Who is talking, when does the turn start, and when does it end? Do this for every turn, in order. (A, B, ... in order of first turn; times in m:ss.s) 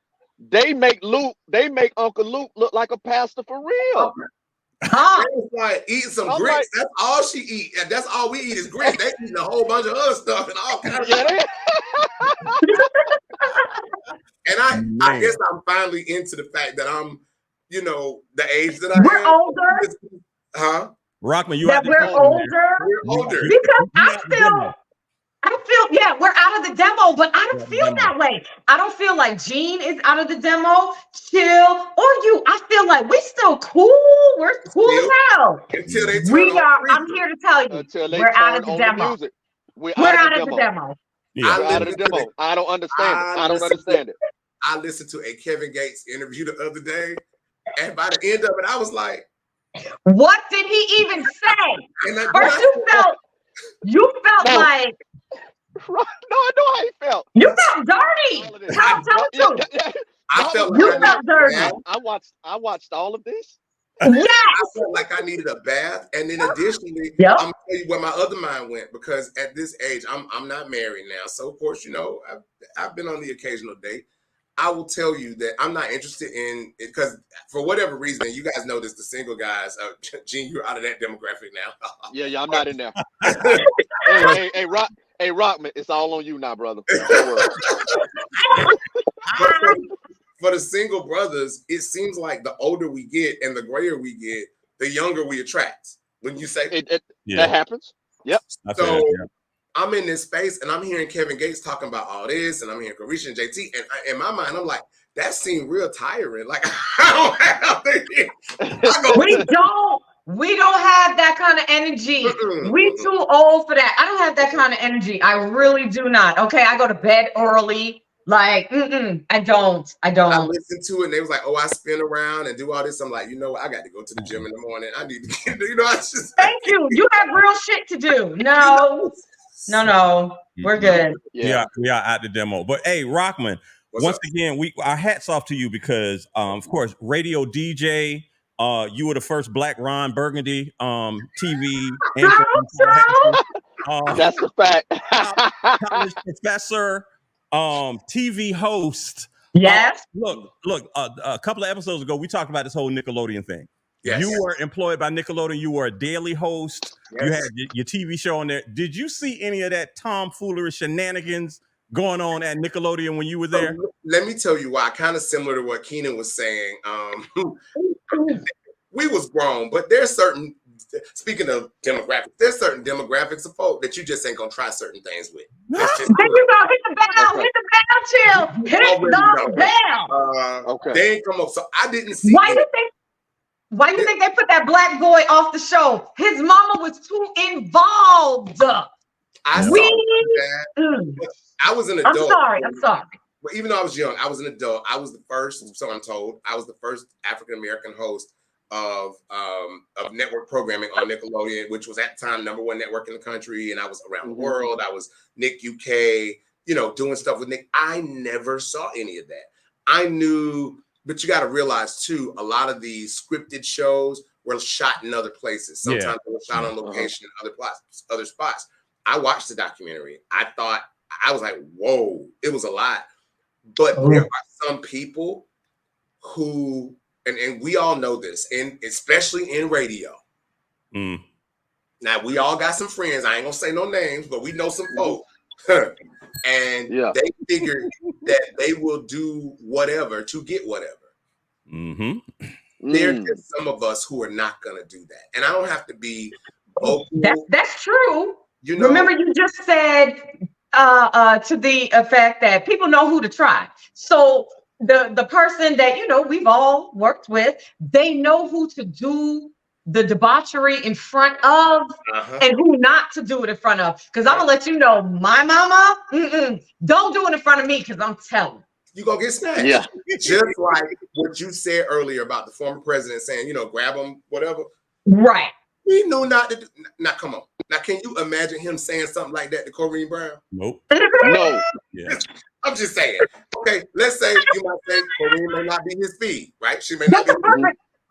0:00.4-0:04.1 A
0:04.9-0:05.3 B
0:05.2-0:11.3 C
0:06.2-0:06.7 A
0:10.9-0:12.6 A
0:12.6-0:13.7 B
0:14.4-0:20.9 C
0:14.7-0:15.4 D
0:18.9-0:19.8 B
0:21.2-0:24.8 D
0:21.6-0:24.7 B
0:22.0-0:22.4 A
0:22.8-0:23.5 C
0:25.4-0:35.6 B
0:27.5-0:28.1 D
0:34.6-0:35.1 C
0:35.7-0:37.2 C
0:35.8-0:36.2 D
0:36.2-0:39.2 B
0:37.7-0:40.7 A
0:40.0-0:41.0 B
0:41.3-0:41.9 D
0:41.4-0:42.3 C
0:41.5-0:44.2 A
0:42.9-0:44.0 C
0:44.6-0:47.2 C
0:47.8-0:49.2 C
0:50.0-0:53.2 B
0:52.0-0:53.1 C
0:53.8-0:55.0 B
0:54.4-0:54.7 A
0:55.8-0:57.3 A
0:57.3-0:59.6 B
0:58.3-1:03.6 A
1:00.3-1:01.8 C
1:00.7-1:01.8 B
1:04.0-1:04.6 B
1:04.5-1:14.0 C
1:07.2-1:07.4 B
1:14.6-1:22.1 C
1:22.1-1:23.0 A
1:23.2-1:23.5 D
1:23.3-1:23.6 C
1:24.0-1:27.5 A
1:27.1-1:27.7 C
1:28.4-1:28.7 B
1:29.4-1:29.8 B
1:29.4-1:29.9 C
1:30.4-1:36.8 C
1:36.7-1:38.4 A
1:37.2-1:37.6 D
1:38.5-1:39.2 D
1:38.7-1:39.2 C
1:39.7-1:49.4 C
1:48.6-1:49.4 A
1:49.1-2:00.5 B
1:52.2-1:53.1 C
2:00.3-2:07.0 C
2:04.2-2:04.4 D
2:06.4-2:09.1 B
2:08.6-2:09.8 C
2:09.7-2:11.2 B
2:10.6-2:24.3 D
2:11.3-2:11.7 A
2:13.9-2:14.2 C
2:22.2-2:23.4 B
2:24.1-2:25.9 A
2:25.2-2:43.8 D
2:29.5-2:30.0 B
2:34.0-2:34.4 C
2:37.1-2:37.5 C
2:43.5-2:47.6 C
2:47.8-2:48.4 B
2:48.9-2:50.6 C
2:51.1-2:56.4 C
2:55.7-2:56.1 D
2:56.1-3:00.1 B
2:57.2-2:57.5 A
2:58.7-3:02.6 C
3:00.6-3:01.0 A
3:02.2-3:02.9 B
3:03.7-3:08.9 B
3:09.4-3:12.8 C
3:09.5-3:09.8 D
3:09.6-3:11.2 B
3:12.0-3:13.1 B
3:13.4-3:43.0 C
3:24.2-3:24.6 A
3:35.8-3:36.7 D
3:36.8-3:37.1 A
3:43.8-3:45.4 C
3:44.0-3:44.2 B
3:46.2-3:50.2 C
3:50.9-3:51.2 D
3:52.0-4:01.0 C
3:54.9-3:55.2 A
3:56.9-3:57.1 A
4:01.7-4:02.4 D
4:02.8-4:03.4 A
4:02.9-4:07.4 C
4:07.2-4:10.2 B
4:08.6-4:09.1 C
4:10.7-4:28.6 B
4:22.1-4:22.4 C
4:28.9-4:34.7 C
4:29.6-4:29.9 A
4:35.0-4:35.5 B
4:35.8-4:40.4 C
4:40.5-4:40.8 D
4:40.9-4:41.6 B
4:41.2-4:41.6 A
4:41.9-4:42.2 D
4:42.1-4:47.6 C
4:47.1-4:47.8 B